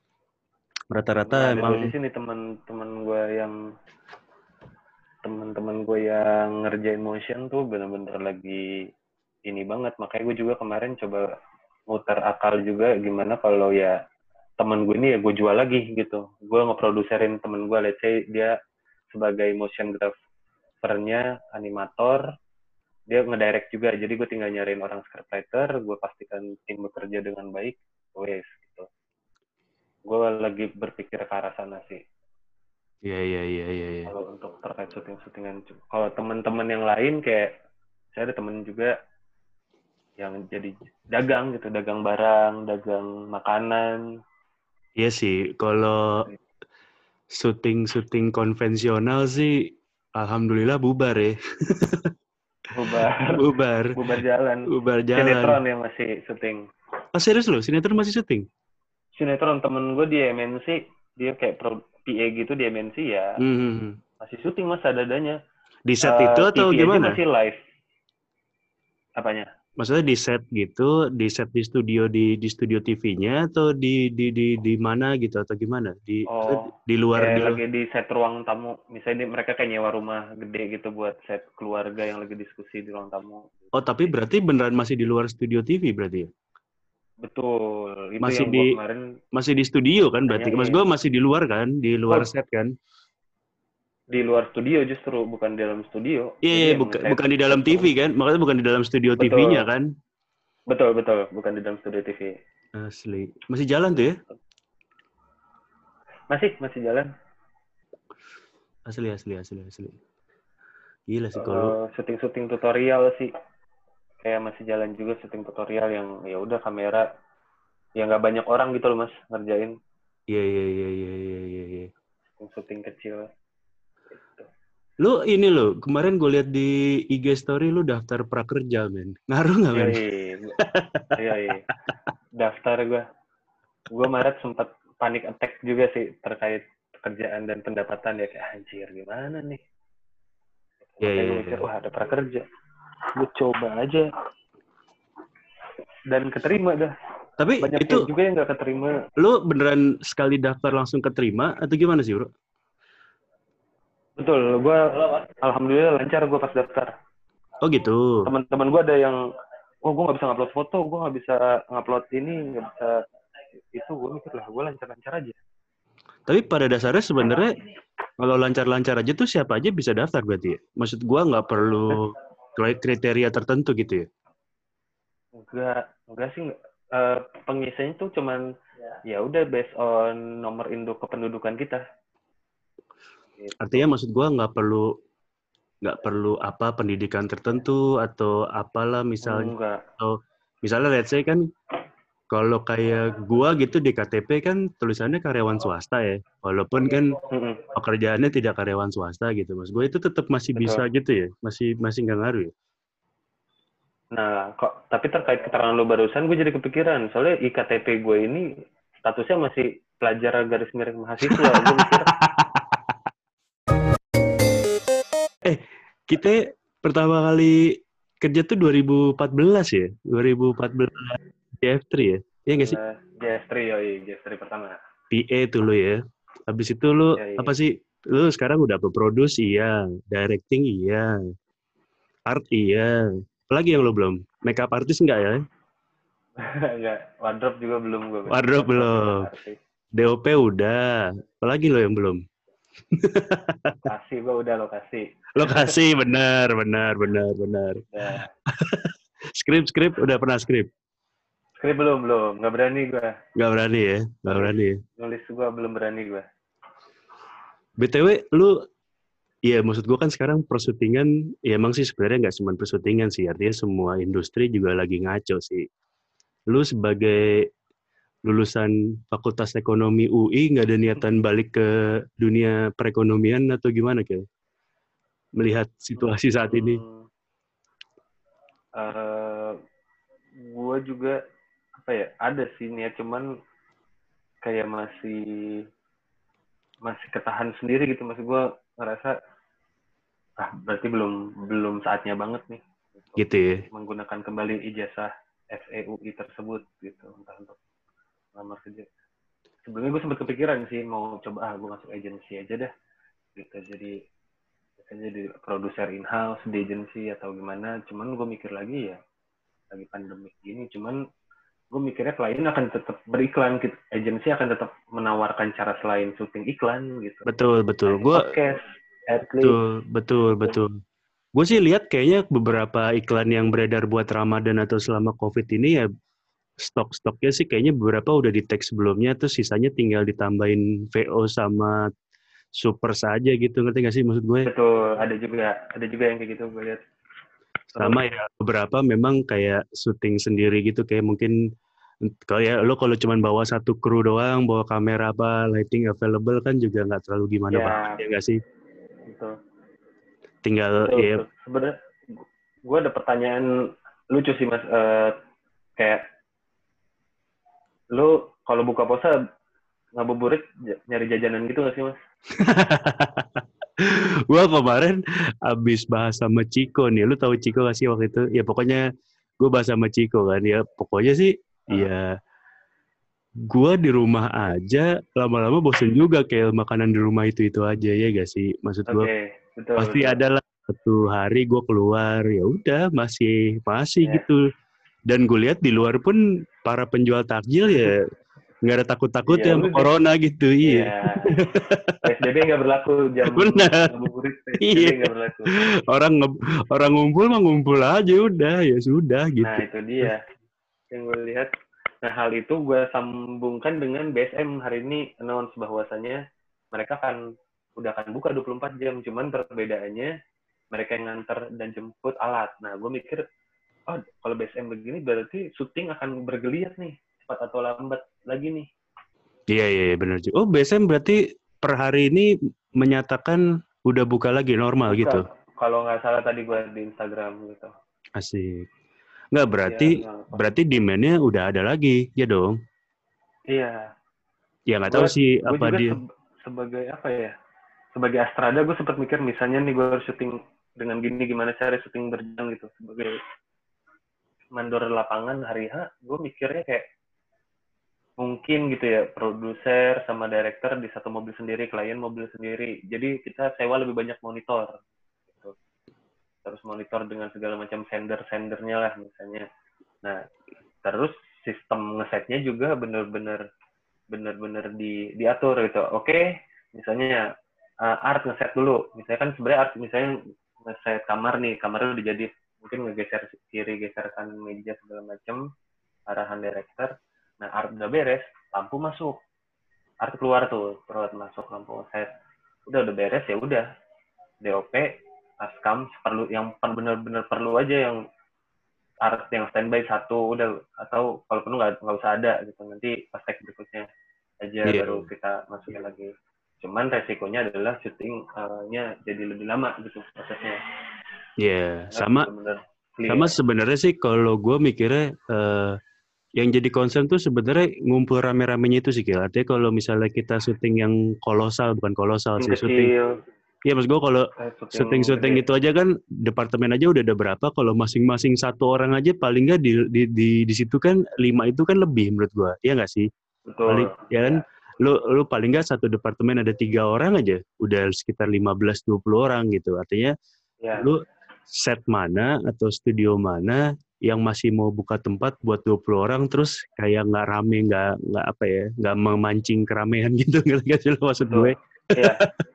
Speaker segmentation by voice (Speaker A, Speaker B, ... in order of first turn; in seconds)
Speaker A: 0.9-1.9, 33.0-34.1, 45.0-46.2, 47.4-49.5, 50.2-52.1, 53.2-54.0, 54.7-55.6, 57.1-58.4, 63.4-64.0, 65.9-67.2, 69.8-77.6, 83.8-86.3, 88.2-88.7, 89.3-92.7, 96.4-99.9, 102.8-104.1, 108.9-110.0, 111.1-111.7, 120.3-121.9, 125.0-130.0, 130.6-131.2, 141.0-141.6, 147.4-148.1, 149.2-152.3, 157.6-158.3, 166.3-167.6, 168.2-174.1, 183.6-184.8, 185.8-191.4, 192.3-197.2, 197.7-202.5, 211.2-212.8, 215.4-217.7, 218.2-222.8, 225.1-226.0, 226.5-231.1, 232.3-232.9, 233.5-235.4, 238.3-239.3, 239.9-242.2, 242.9-243.9, 245.3-247.8, 248.6-250.7, 253.3-254.8, 257.8-258.5, 259.5-265.6, 266.5-267.4, 268.2-271.6, 272.2-274.2, 275.4-276.8, 293.2-293.6, 317.2-318.2, 319.4-320.7, 321.3-325.9, 326.6-331.8, 332.6-334.5, 337.8-341.3, 342.1-348.4, 350.4-351.2, 362.4-368.8, 369.4-372.0, 373.5-379.1, 379.8-384.4, 385.1-388.0, 388.6-390.9, 391.5-392.0, 393.3-393.9, 394.6-395.0, 395.9-400.1, 419.5-422.3, 422.8-425.2, 428.2-428.6, 429.3-432.5, 434.7-435.9, 494.6-495.1, 501.4-502.3, 503.1-505.7, 506.4-512.8, 513.6-523.1, 523.7-530.1, 531.6-542.1
Speaker B: 1.3-3.5, 5.2-8.6, 9.5-11.3, 11.9-13.9, 14.6-18.5, 19.1-20.1, 20.8-22.2, 23.1-28.9, 30.1-32.0, 34.1-37.5, 38.1-38.9, 40.2-44.0, 52.7-53.4, 54.0-56.6, 59.2-63.4, 64.2-65.4, 66.0-67.6, 69.2-69.5, 76.3-83.7, 87.2-89.0, 90.3-90.8, 94.1-97.9, 99.2-99.6, 100.7-102.3, 106.3-107.1, 111.3-113.3, 114.2-117.0, 118.0-119.7, 122.4-123.3, 124.2-124.5, 129.7-130.6, 131.2-131.7, 132.4-133.0, 133.9-139.6, 140.9-142.4, 143.2-144.1, 146.1-146.9, 147.6-148.9, 154.2-156.9, 158.2-159.2, 159.9-162.9, 163.7-165.4, 175.4-178.4, 179.1-181.8, 183.4-183.9, 189.2-189.8, 197.3-197.6, 200.5-200.8, 204.1-208.4, 209.0-212.1, 222.5-224.8, 227.2-227.5, 236.4-239.6, 243.8-245.7, 247.9-248.3, 251.6-253.1, 254.3-256.2, 276.0-277.0, 278.8-279.6, 280.4-281.2, 281.8-283.2, 284.4-285.2, 286.8-289.1, 290.4-297.6, 298.3-298.9, 299.6-302.7, 303.4-303.9, 304.8-309.0, 309.7-311.0, 311.7-317.2, 317.9-319.5, 334.4-336.8, 337.7-338.0, 347.5-348.0, 350.8-353.5, 354.1-355.1, 357.9-359.1, 359.9-361.9, 378.9-380.2, 389.3-389.9, 390.6-391.4, 392.0-395.5, 399.4-400.2, 400.9-401.5, 402.0-406.2, 406.7-407.2, 407.8-410.1, 410.7-413.2, 413.9-418.7, 424.9-427.7, 429.6-430.4, 433.5-433.8, 434.9-437.3, 437.9-443.1, 444.5-446.8, 448.2-454.7, 456.4-459.4, 460.8-463.4, 464.1-467.2, 467.8-475.4, 476.1-476.9, 477.4-479.1, 480.0-482.1, 482.7-483.6, 484.4-488.0, 489.0-493.9, 494.4-496.1, 496.6-500.6, 501.9-503.3, 512.4-513.1, 514.4-515.4, 523.5-524.4, 530.6-530.9, 541.2-542.2